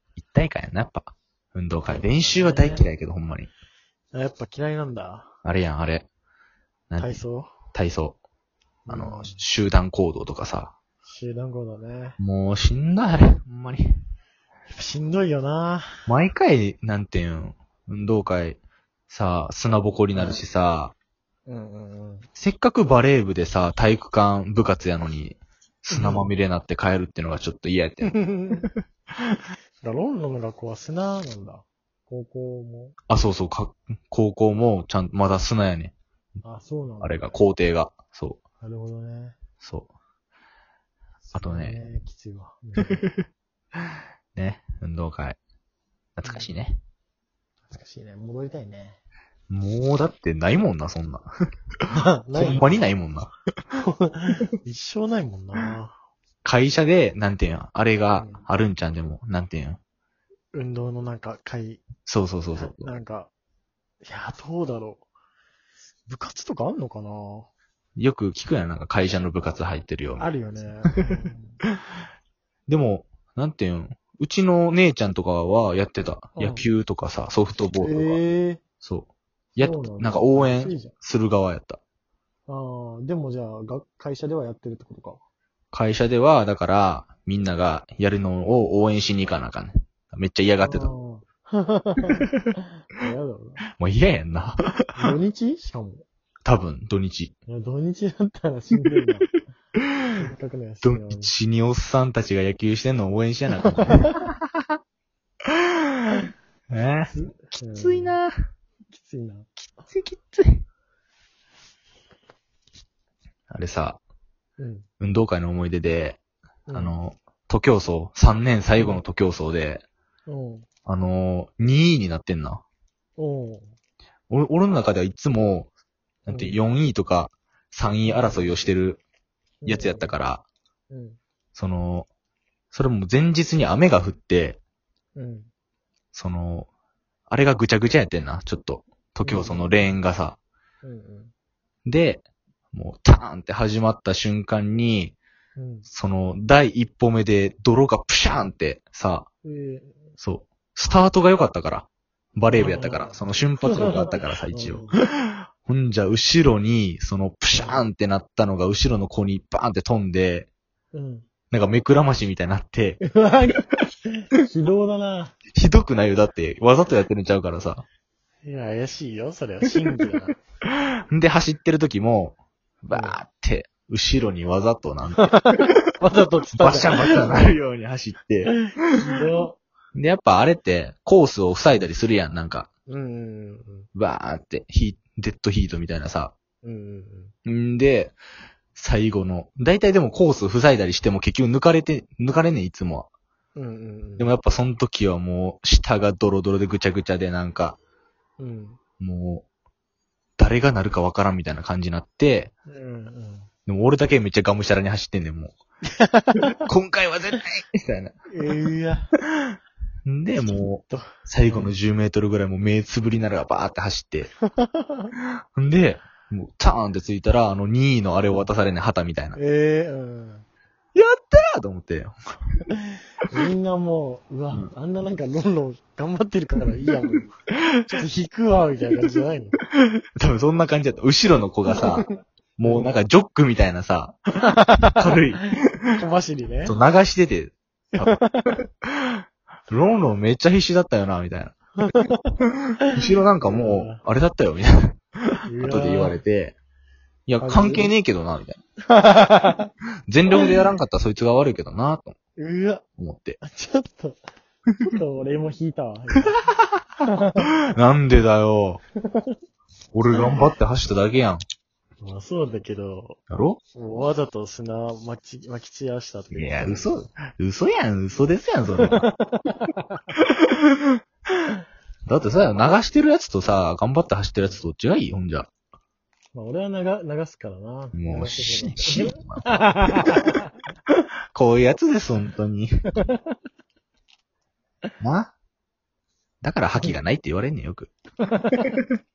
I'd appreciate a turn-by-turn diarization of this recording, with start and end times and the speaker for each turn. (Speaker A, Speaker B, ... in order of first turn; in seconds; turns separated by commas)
Speaker A: 0.2-3.5, Speaker B: 1.9-2.9, Speaker B: 4.1-5.3, Speaker A: 5.5-6.1, Speaker A: 6.9-8.2, Speaker B: 7.0-7.5, Speaker B: 8.9-9.4, Speaker A: 8.9-10.8, Speaker B: 11.0-12.2, Speaker A: 12.2-13.8, Speaker B: 14.7-15.9, Speaker A: 16.1-20.9, Speaker B: 20.1-20.4, Speaker B: 21.5-22.3, Speaker A: 22.4-28.8, Speaker B: 25.9-26.3, Speaker B: 28.1-28.7, Speaker B: 29.8-33.0, Speaker A: 33.1-36.0, Speaker B: 36.4-37.4, Speaker A: 37.0-38.4, Speaker B: 38.6-39.4, Speaker A: 39.6-39.9, Speaker B: 41.2-43.0, Speaker A: 41.4-41.8, Speaker A: 44.4-45.4, Speaker A: 46.2-46.8, Speaker B: 46.2-46.5, Speaker B: 47.7-49.0, Speaker A: 49.5-51.3, Speaker B: 51.9-52.9, Speaker A: 52.4-53.3, Speaker B: 53.8-56.0, Speaker A: 56.4-59.8, Speaker B: 58.2-58.4, Speaker B: 60.5-61.9, Speaker A: 62.0-62.9, Speaker B: 62.5-63.3, Speaker B: 64.0-65.1, Speaker B: 66.1-67.5, Speaker A: 68.0-70.3, Speaker B: 70.2-71.6, Speaker A: 72.7-78.2, Speaker B: 76.4-76.6, Speaker B: 77.8-78.6, Speaker A: 78.8-81.8, Speaker B: 79.6-80.9, Speaker B: 82.5-85.2, Speaker A: 85.7-90.9, Speaker B: 90.6-92.3, Speaker B: 92.9-93.6, Speaker A: 93.8-94.9, Speaker B: 95.0-96.1, Speaker A: 96.5-97.3, Speaker B: 97.5-99.3, Speaker B: 100.2-101.3, Speaker A: 100.8-104.3, Speaker B: 103.7-104.2, Speaker A: 106.7-107.1, Speaker B: 107.1-108.2, Speaker A: 107.7-108.3, Speaker B: 108.9-109.5, Speaker A: 109.9-110.6, Speaker A: 113.5-114.0, Speaker B: 114.6-114.9, Speaker A: 115.0-116.2, Speaker B: 116.7-117.0, Speaker A: 116.7-119.8, Speaker B: 120.3-120.7, Speaker A: 120.9-122.6, Speaker B: 123.2-123.8, Speaker A: 124.3-125.7, Speaker A: 126.3-129.0, Speaker B: 126.3-126.6, Speaker B: 128.1-128.6, Speaker B: 129.6-130.1, Speaker A: 129.7-130.4, Speaker B: 130.9-131.2, Speaker A: 131.6-132.1, Speaker A: 132.7-134.6, Speaker B: 135.2-135.5, Speaker A: 136.1-136.7, Speaker A: 137.3-140.4, Speaker B: 139.2-139.9, Speaker B: 140.8-141.3, Speaker A: 141.8-145.2, Speaker B: 145.6-145.9, Speaker A: 145.9-149.3, Speaker B: 149.4-150.1, Speaker A: 150.2-160.5, Speaker B: 152.5-155.0, Speaker B: 157.5-157.8, Speaker B: 160.9-161.3, Speaker A: 161.5-163.0, Speaker B: 163.0-165.4, Speaker A: 165.5-167.8, Speaker B: 168.4-170.4, Speaker A: 170.7-175.4, Speaker B: 172.9-173.2, Speaker B: 175.2-177.6, Speaker A: 176.5-178.9, Speaker B: 178.5-179.6, Speaker A: 179.9-182.7, Speaker B: 182.9-183.9, Speaker A: 183.9-186.3, Speaker B: 186.6-187.3, Speaker A: 187.4-188.2, Speaker A: 188.8-193.1, Speaker B: 193.6-194.3, Speaker A: 194.2-197.8, Speaker B: 198.4-198.8, Speaker A: 199.0-199.4, Speaker A: 200.4-202.5, Speaker B: 202.7-203.5, Speaker A: 203.7-205.6, Speaker B: 205.9-206.6, Speaker A: 206.5-208.2, Speaker B: 208.3-209.1, Speaker A: 210.1-214.3, Speaker B: 210.4-211.8, Speaker B: 214.5-215.1, Speaker A: 215.2-219.4, Speaker B: 219.3-220.5, Speaker A: 220.9-222.2, Speaker B: 223.3-227.3, Speaker B: 227.9-229.6, Speaker A: 230.2-232.1, Speaker B: 231.8-232.1, Speaker A: 232.6-235.9, Speaker B: 232.6-232.9, Speaker B: 234.4-236.8, Speaker A: 236.7-241.6, Speaker B: 238.0-238.6, Speaker B: 241.8-242.4, Speaker A: 242.9-246.6, Speaker B: 243.4-244.0, Speaker B: 245.5-246.2, Speaker A: 247.3-248.6, Speaker B: 247.4-247.9, Speaker B: 248.9-249.7, Speaker A: 250.1-252.2, Speaker B: 250.3-250.6, Speaker B: 252.4-252.8, Speaker A: 253.0-253.4, Speaker B: 253.4-254.2, Speaker B: 254.8-256.5, Speaker B: 257.0-257.5, Speaker A: 257.7-258.8, Speaker B: 259.1-259.4, Speaker A: 259.9-261.4, Speaker B: 260.1-260.4, Speaker B: 262.0-263.2, Speaker A: 263.3-263.6, Speaker B: 263.7-266.9, Speaker A: 266.3-269.1, Speaker B: 268.8-270.0, Speaker A: 270.2-271.0, Speaker A: 272.1-275.5, Speaker B: 276.3-280.4, Speaker A: 277.9-280.3, Speaker A: 281.3-282.7, Speaker B: 282.9-283.4, Speaker A: 285.0-285.3, Speaker A: 286.4-287.9, Speaker B: 288.2-288.8